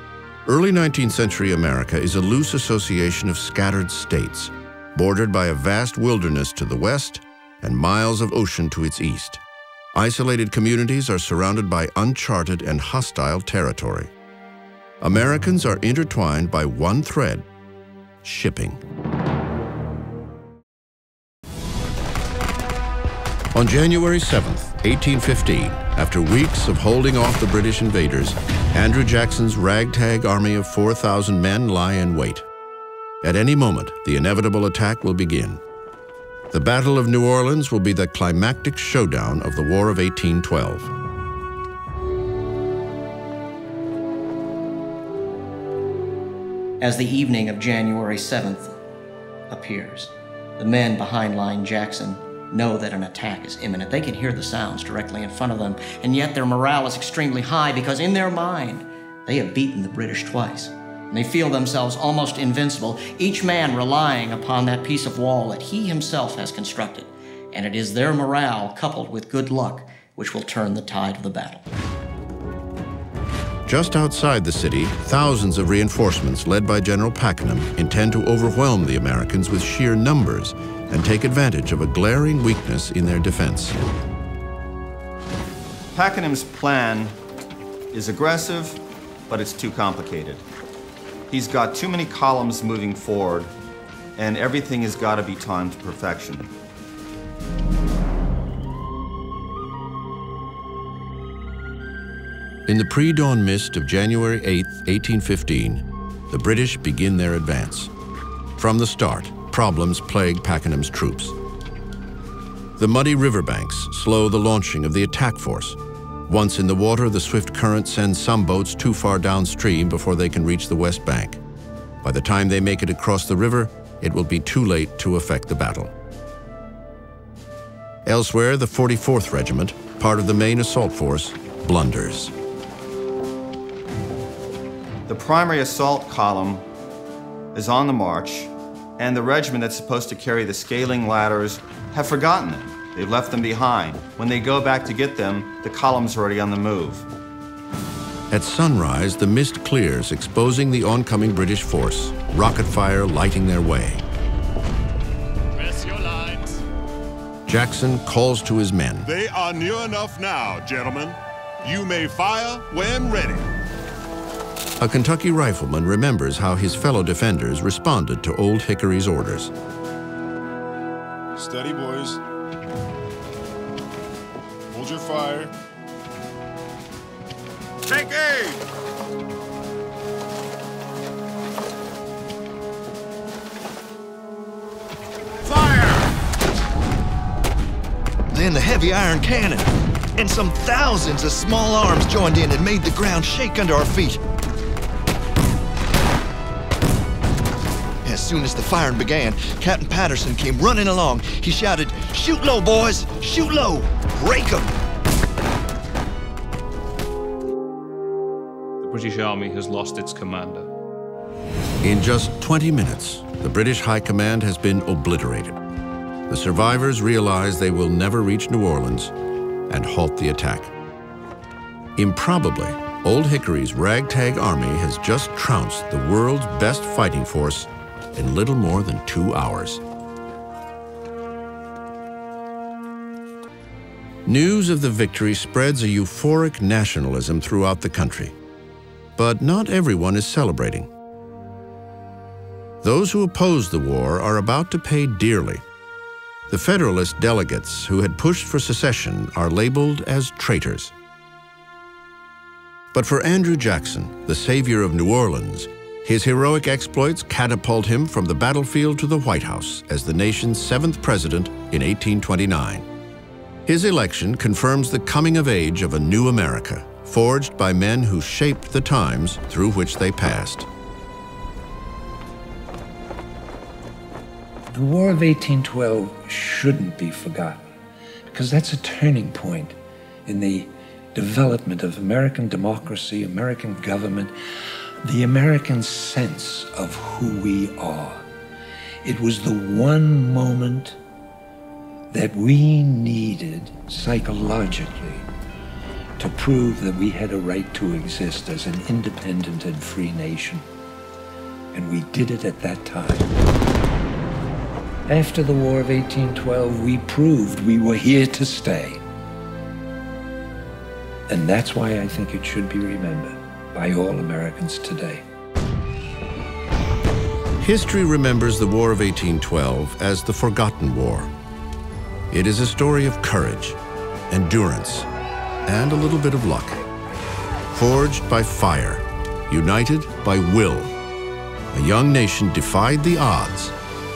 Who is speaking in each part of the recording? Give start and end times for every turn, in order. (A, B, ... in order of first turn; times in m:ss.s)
0:00.5-0:09.4 A
0:10.0-0:14.1 A
0:15.0-0:17.4 A
0:18.2-0:18.8 A
0:23.5-0:32.5 A
0:33.2-0:35.6 A
0:36.5-0:40.9 A
0:46.8-0:48.8 B
0:49.5-1:11.7 B
1:13.7-1:23.8 A
1:25.9-1:27.2 C
1:27.9-1:30.4 C
1:31.3-1:33.5 C
1:34.2-1:36.5 C
1:42.7-1:47.9 A
1:48.6-1:51.4 A
1:52.8-2:01.4 A
2:02.0-2:05.9 A
2:08.1-2:12.3 A
2:15.1-2:16.6 C
2:17.5-2:27.1 C
2:28.3-2:34.0 A
2:35.6-2:36.4 D
2:35.7-2:36.3 E
2:37.5-2:39.1 A
2:39.0-2:43.5 D
2:44.8-2:49.5 A
2:51.4-2:52.2 D
2:54.7-2:55.5 D
2:57.9-2:58.6 D
3:05.4-3:06.1 D
3:08.3-3:14.2 F
3:18.0-3:24.7 F
3:28.8-3:30.7 E
3:31.8-3:35.6 A
3:36.3-3:39.1 A
3:39.7-3:40.7 A
3:42.0-3:49.8 A
3:54.2-3:58.4 A
3:59.2-4:00.9 A
4:02.8-4:05.6 A
4:06.5-4:10.9 A
4:12.9-4:22.9 A
4:23.7-4:30.7 A
4:34.7-4:37.6 G
4:38.3-4:44.3 G
4:45.0-4:48.2 G
4:49.0-4:51.0 G
4:52.1-4:55.3 G
4:56.2-5:00.7 G
5:01.7-5:03.3 G
5:05.1-5:09.0 G
5:11.3-5:15.2 G
5:17.6-5:21.3 A
5:22.3-5:23.8 A
5:24.3-5:25.1 A
5:25.7-5:26.8 A
5:27.7-5:30.9 A
5:31.7-5:33.8 A